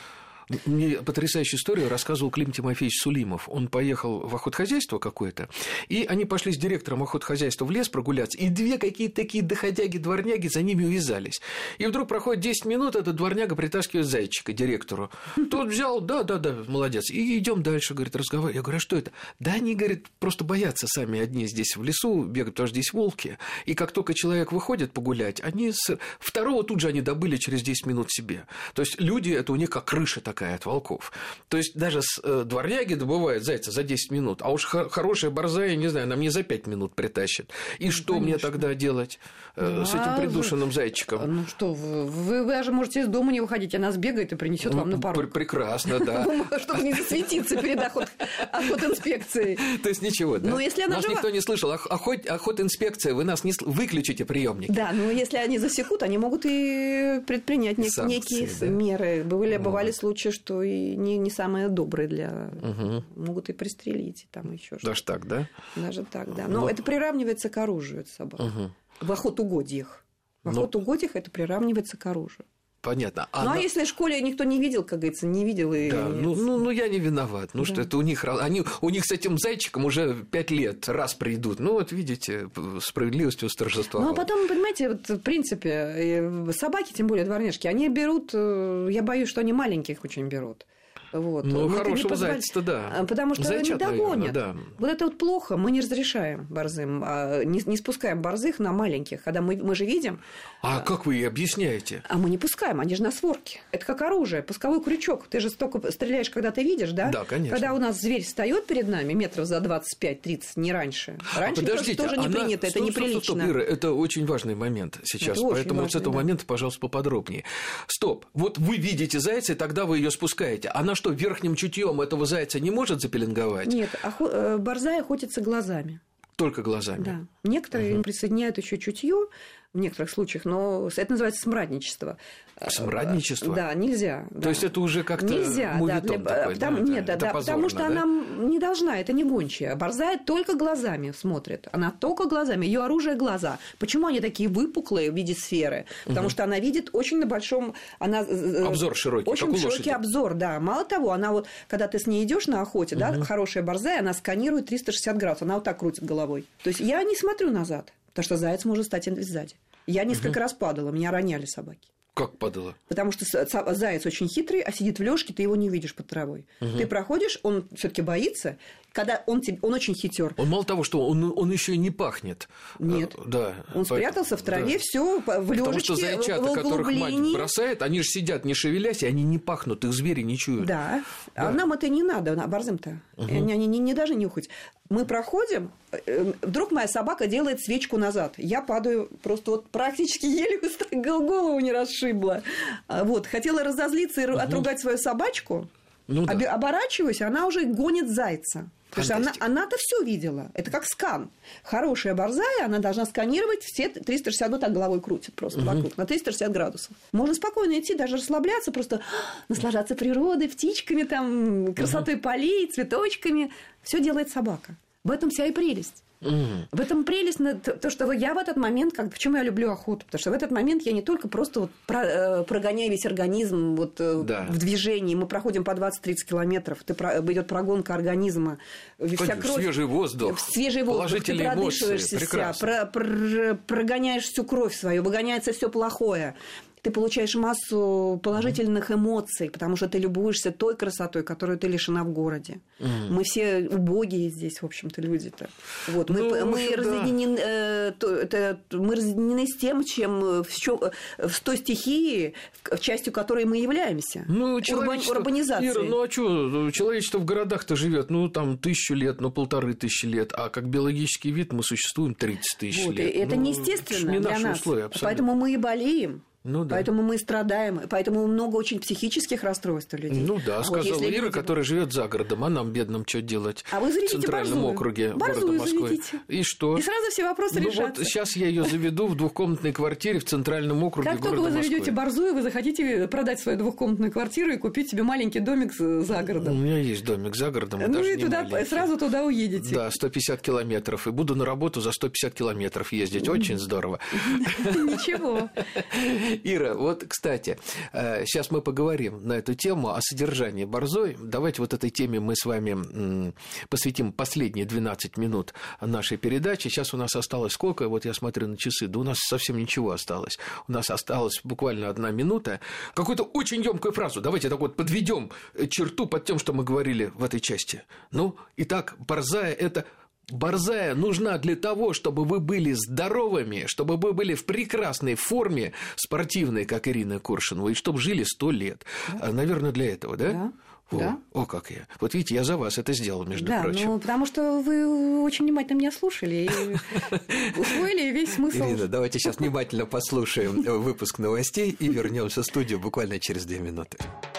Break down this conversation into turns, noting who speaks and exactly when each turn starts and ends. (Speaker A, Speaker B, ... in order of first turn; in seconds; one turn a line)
Speaker A: 0.5-41.3
Speaker B: 38.0-38.7
Speaker B: 39.6-49.7
Speaker A: 44.6-47.2
Speaker A: 49.6-54.8
Speaker B: 50.4-51.3
Speaker B: 54.7-65.0
Speaker A: 57.8-58.8
Speaker A: 59.6-59.9
Speaker A: 62.6-63.0
Speaker A: 64.8-65.5
Speaker B: 65.6-72.4
Speaker A: 68.4-68.7
Speaker A: 72.8-73.7
Speaker B: 73.4-76.7
Speaker A: 75.8-84.3
Speaker B: 83.9-100.2
Speaker A: 91.4-94.7
Speaker A: 100.6-102.0
Speaker B: 102.0-113.6
Speaker A: 107.0-107.8
Speaker A: 111.3-123.8
Speaker B: 115.2-116.3
Speaker B: 123.6-126.0
Speaker A: 126.4-127.2
Speaker B: 127.0-161.9
Speaker A: 132.7-133.7
Speaker A: 134.4-138.1
Speaker A: 148.6-150.0
Speaker A: 153.0-153.2
Speaker A: 162.2-162.8
Speaker B: 162.9-170.4
Speaker A: 166.6-166.9
Speaker A: 170.4-174.8
Speaker B: 172.8-177.5
Speaker A: 175.5-180.7
Speaker B: 180.6-195.7
Speaker A: 183.2-183.5
Speaker A: 194.3-194.7
Speaker A: 196.1-196.4
Speaker B: 196.2-216.0
Speaker A: 198.9-199.4
Speaker A: 205.6-205.8
Speaker A: 216.2-216.7
Speaker B: 216.7-256.0
Speaker A: 224.2-224.6
Speaker A: 229.2-232.7
Speaker A: 242.8-243.1
Speaker A: 246.0-247.2
Speaker A: 254.3-265.3
Speaker B: 262.7-271.6
Speaker A: 266.4-266.9
Speaker A: 270.1-276.9
Speaker B: 273.7-278.2
Speaker A: 277.5-282.0
Speaker B: 281.0-286.6
Speaker A: 286.3-288.9
Speaker B: 287.8-289.9
Speaker A: 289.6-295.2
Speaker B: 293.2-293.6
Speaker B: 294.2-295.6
Speaker A: 295.8-334.0
Speaker B: 330.2-331.2
Speaker B: 333.4-339.5
Speaker A: 336.7-337.8
Speaker A: 338.5-344.1